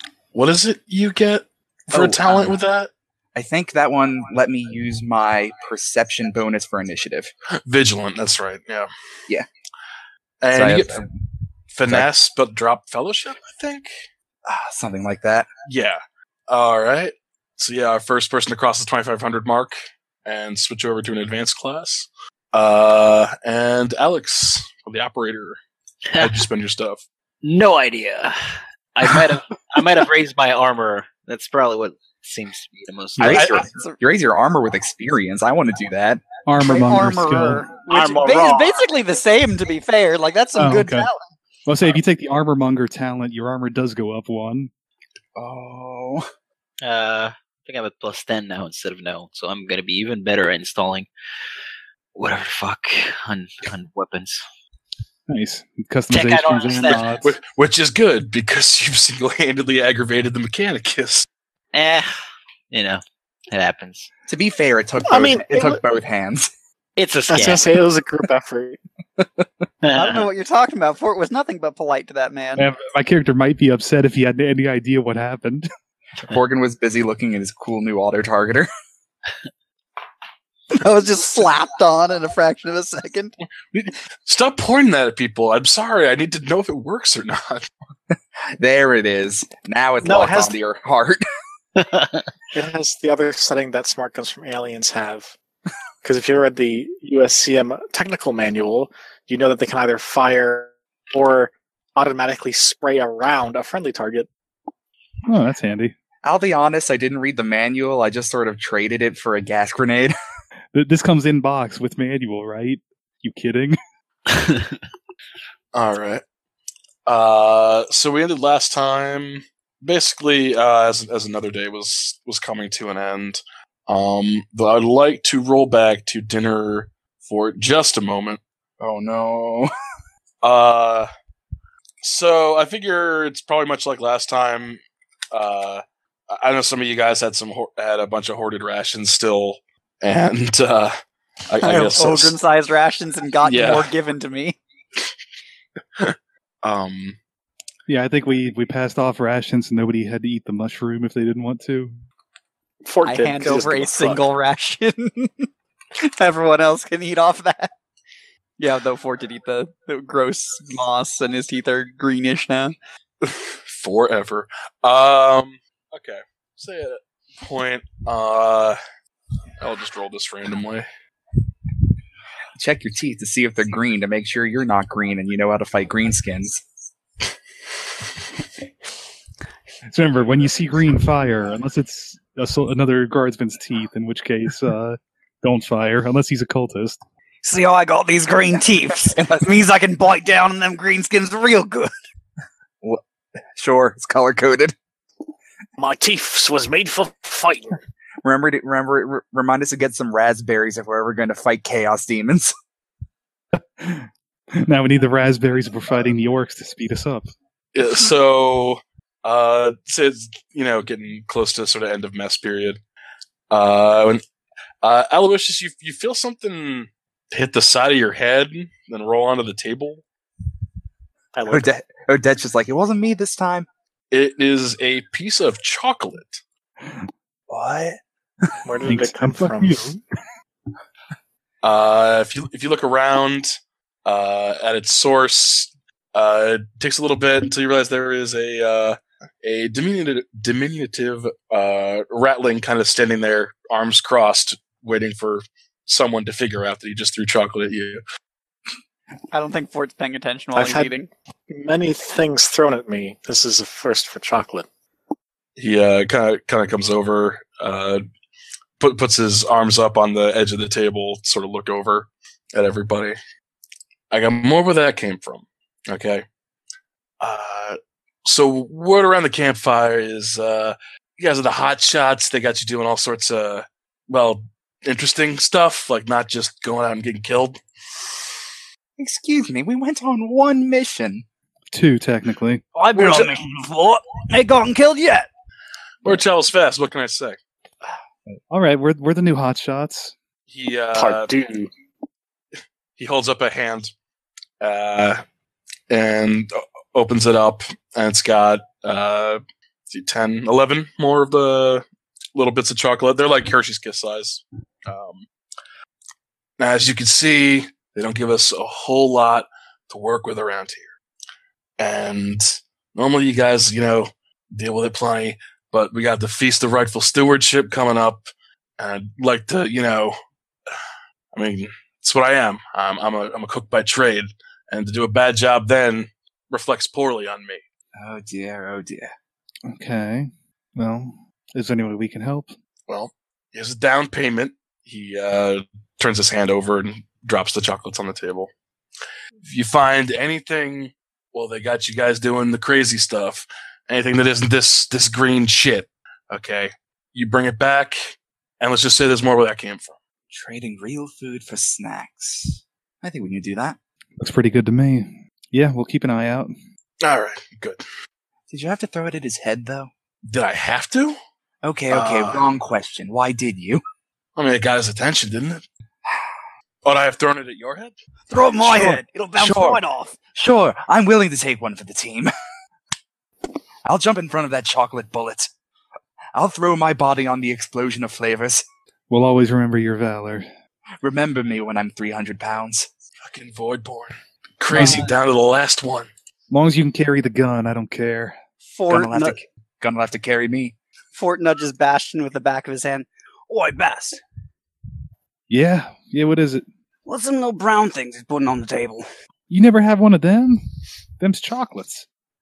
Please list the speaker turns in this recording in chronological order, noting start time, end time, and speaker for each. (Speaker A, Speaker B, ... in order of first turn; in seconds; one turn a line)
Speaker A: 0.3-2.9
Speaker B: 1.9-2.5
Speaker B: 3.3-7.3
Speaker A: 7.7-8.9
Speaker A: 10.4-11.0
Speaker B: 10.5-11.1
Speaker A: 11.7-13.9
Speaker B: 14.4-15.5
Speaker A: 15.7-25.6
Speaker A: 26.2-27.0
Speaker C: 27.4-28.4
Speaker C: 28.9-33.7
Speaker B: 33.2-36.3
Speaker D: 33.3-34.0
Speaker E: 36.4-37.7
Speaker D: 36.6-41.2
Speaker C: 37.9-38.9
Speaker E: 40.6-41.1
Speaker E: 41.7-44.7
Speaker B: 45.4-46.3
Speaker C: 46.8-51.1
Speaker C: 52.1-54.4
Speaker E: 55.3-57.3
Speaker C: 56.1-57.2
Speaker A: 56.8-61.3
Speaker C: 61.7-62.1
Speaker C: 62.7-64.1
Speaker B: 64.3-66.5
Speaker F: 65.0-65.8
Speaker C: 67.0-67.7
Speaker F: 67.3-68.8
Speaker C: 69.8-70.2
Speaker D: 69.9-72.7
Speaker E: 72.5-75.7
Speaker B: 76.2-78.7
Speaker D: 80.7-83.3
Speaker A: 83.7-87.7
Speaker B: 88.1-91.2
Speaker F: 90.0-90.5
Speaker C: 91.8-92.2
Speaker F: 92.5-95.3
Speaker F: 96.0-104.3
Speaker E: 105.2-105.9
Speaker B: 106.2-110.1
Speaker E: 110.7-113.8
Speaker A: 115.7-116.2
Speaker A: 117.0-128.4
Speaker B: 128.8-129.7
Speaker A: 130.4-131.1
Speaker A: 132.0-134.8
Speaker A: 135.3-140.9
Speaker A: 141.5-142.3
Speaker D: 141.6-144.6
Speaker A: 143.4-143.9
Speaker A: 146.0-147.2
Speaker E: 147.9-151.9
Speaker F: 152.8-154.2
Speaker D: 153.0-155.5
Speaker D: 156.0-157.7
Speaker D: 158.6-162.7
Speaker A: 163.2-168.8
Speaker A: 169.6-170.8
Speaker B: 172.6-176.6
Speaker E: 179.9-187.0
Speaker D: 187.4-191.9
Speaker B: 189.1-189.5
Speaker B: 193.5-194.7
Speaker F: 195.8-197.8
Speaker B: 198.2-202.5
Speaker E: 203.6-207.3
Speaker A: 207.7-212.8
Speaker A: 213.5-214.2
Speaker A: 214.8-220.0
Speaker F: 221.3-221.7
Speaker B: 221.4-223.7
Speaker A: 224.1-226.4
Speaker B: 227.5-228.0
Speaker F: 228.6-229.9
Speaker E: 228.8-230.0
Speaker A: 231.6-233.5
Speaker A: 234.0-248.0
Speaker D: 249.3-251.1
Speaker F: 250.6-250.9
Speaker F: 251.5-254.7
Speaker A: 255.6-258.0
Speaker A: 258.8-263.2
Speaker A: 264.1-266.2
Speaker A: 267.2-277.6
Speaker B: 279.0-281.2
Speaker E: 281.7-282.6
Speaker D: 282.8-285.3
Speaker A: 286.0-287.4
Speaker E: 288.5-290.1
Speaker A: 290.5-291.3
Speaker F: 290.9-291.7
Speaker A: 293.0-293.9
Speaker A: 294.6-295.2
Speaker A: 295.9-301.8
Speaker A: 302.3-305.3
Speaker A: 306.6-310.9
Speaker A: 311.8-318.2
Speaker A: 318.8-320.2
Speaker A: 321.3-327.6
Speaker B: 327.9-329.1
Speaker E: 329.7-332.5
Speaker A: 332.9-338.5
Speaker A: 339.4-349.9
Speaker B: 350.3-353.8
Speaker E: 354.2-356.5
Speaker A: 357.0-357.8
Speaker B: 358.5-359.9
Speaker A: 360.3-361.2
Speaker B: 361.6-363.8
Speaker A: 361.9-362.5
Speaker A: 364.4-365.6
Speaker A: 366.8-367.9
Speaker D: 368.3-370.1
Speaker B: 368.6-369.8
Speaker B: 370.3-372.3
Speaker B: 373.9-375.5
Speaker B: 376.3-378.6
Speaker E: 379.1-380.5
Speaker B: 381.0-382.9
Speaker A: 383.2-386.1
Speaker E: 384.7-385.0
Speaker E: 386.5-388.4
Speaker D: 388.6-389.4
Speaker B: 388.9-390.7
Speaker D: 391.1-394.2
Speaker E: 395.5-396.6
Speaker D: 397.1-399.0
Speaker E: 399.5-400.6
Speaker E: 401.2-402.1